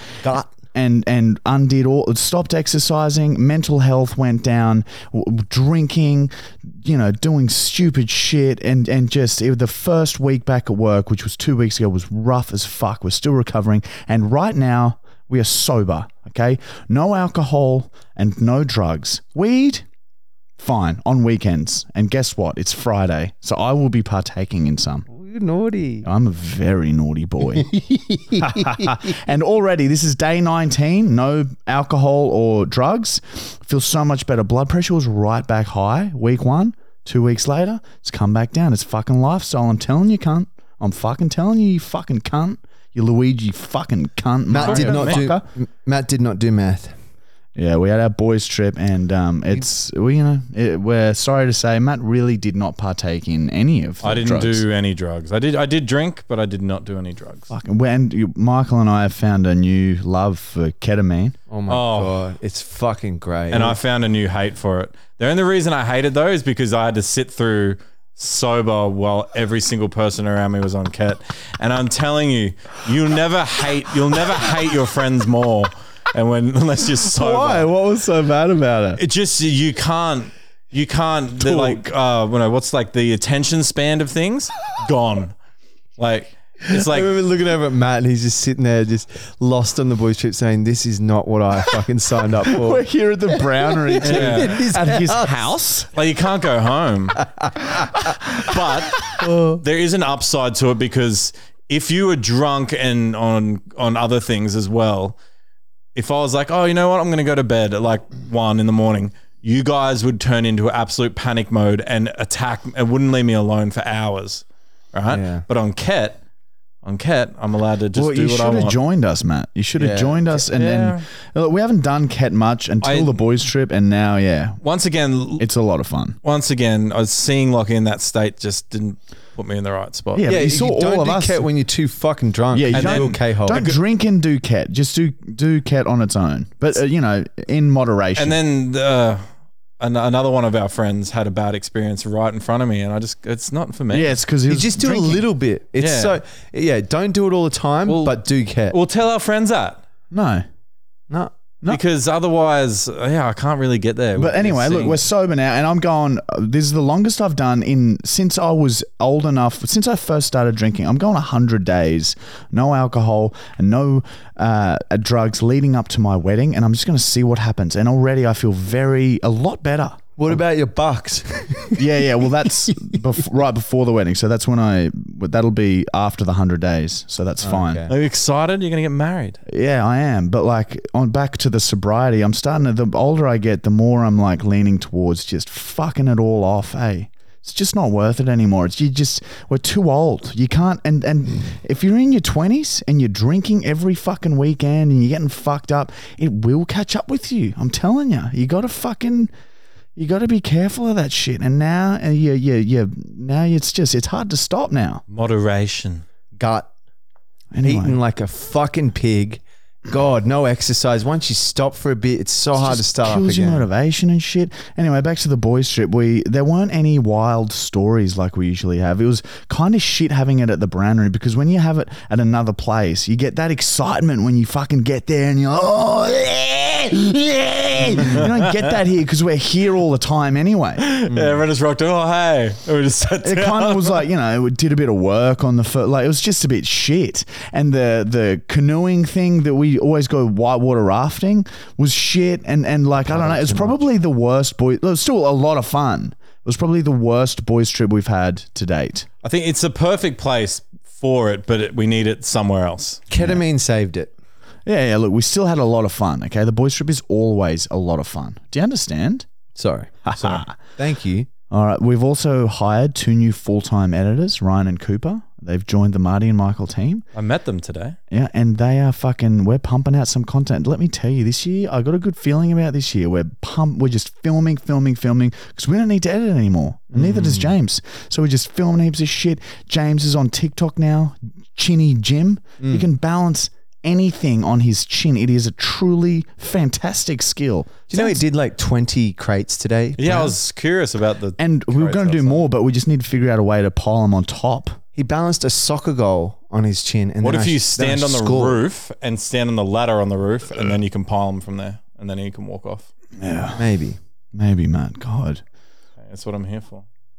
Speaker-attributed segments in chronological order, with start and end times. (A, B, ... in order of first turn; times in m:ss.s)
0:00.2-0:00.5 A
0:00.7-0:19.9 B
0:20.6-0:25.1 B
0:25.1-0:26.1 A
0:26.0-0:27.7 B
0:27.7-0:28.9 A
0:28.4-0:45.4 B
0:44.5-0:47.0 A
0:44.6-0:45.3 C
0:47.6-0:54.6 B
0:54.0-0:57.5 C
0:57.5-1:01.4 B
1:01.5-1:03.8 A
1:01.7-1:02.2 C
1:03.5-1:17.7 C
1:17.0-1:19.0 B
1:19.0-1:25.4 C
1:21.4-1:21.8 B
1:26.0-1:27.2 C
1:26.7-1:32.8 A
1:32.5-1:35.9 B
1:33.7-1:35.4 A
1:34.0-1:34.6 C
1:36.0-1:37.2 C
1:37.4-1:37.7 A
1:38.4-1:45.2 C
1:39.1-1:39.6 A
1:46.0-1:56.2 C
1:55.1-1:55.4 A
1:56.8-1:58.8 C
1:57.9-2:04.6 B
1:59.8-2:00.2 A
2:00.5-2:01.0 C
2:02.8-2:03.2 C
2:04.6-2:05.5 C
2:05.4-2:06.2 B
2:06.2-2:10.3 C
2:10.1-2:11.5 B
2:10.2-2:13.7 A
2:12.5-2:18.4 B
2:12.7-2:13.8 C
2:18.2-2:19.2 C
2:19.8-2:24.1 C
2:23.9-2:25.3 B
2:24.5-2:28.8 A
2:25.8-2:26.2 C
2:27.8-2:29.8 C
2:30.1-2:30.5 B
2:31.1-2:31.4 A
2:31.7-2:35.0 C
2:34.2-2:50.1 B
2:50.2-2:51.8 A
2:51.8-2:57.8 B
2:57.4-2:57.9 A
2:57.9-2:59.4 C
2:59.5-3:19.3 B
3:20.0-3:25.0 B
3:25.1-3:26.0 C
3:26.4-3:26.7 A
3:27.5-3:28.0 B
3:27.6-3:33.6 A
3:32.5-3:50.9 B
3:48.0-3:48.6 C
3:50.8-3:54.0 C
3:51.1-3:51.4 A
3:53.2-4:09.1 B
4:03.1-4:03.8 A
4:09.2-4:13.0 C
4:13.1-4:14.1 A
4:13.2-4:13.4 B
4:14.7-4:19.3 B
4:19.6-4:19.9 A
4:20.1-4:20.5 B
4:20.2-4:20.4 C
4:20.8-4:21.3 A
4:21.5-4:27.0 B
4:27.2-4:28.0 C
4:28.1-4:48.2 B
4:36.9-4:37.5 A
4:42.6-4:42.9 A
4:47.9-4:50.4 A
4:50.0-4:52.4 C
4:51.4-4:54.8 B
4:55.0-4:58.6 A
4:57.2-5:02.9 C
5:03.2-5:03.6 B
5:03.6-5:04.0 A
5:04.3-5:05.4 B
5:06.0-5:06.8 C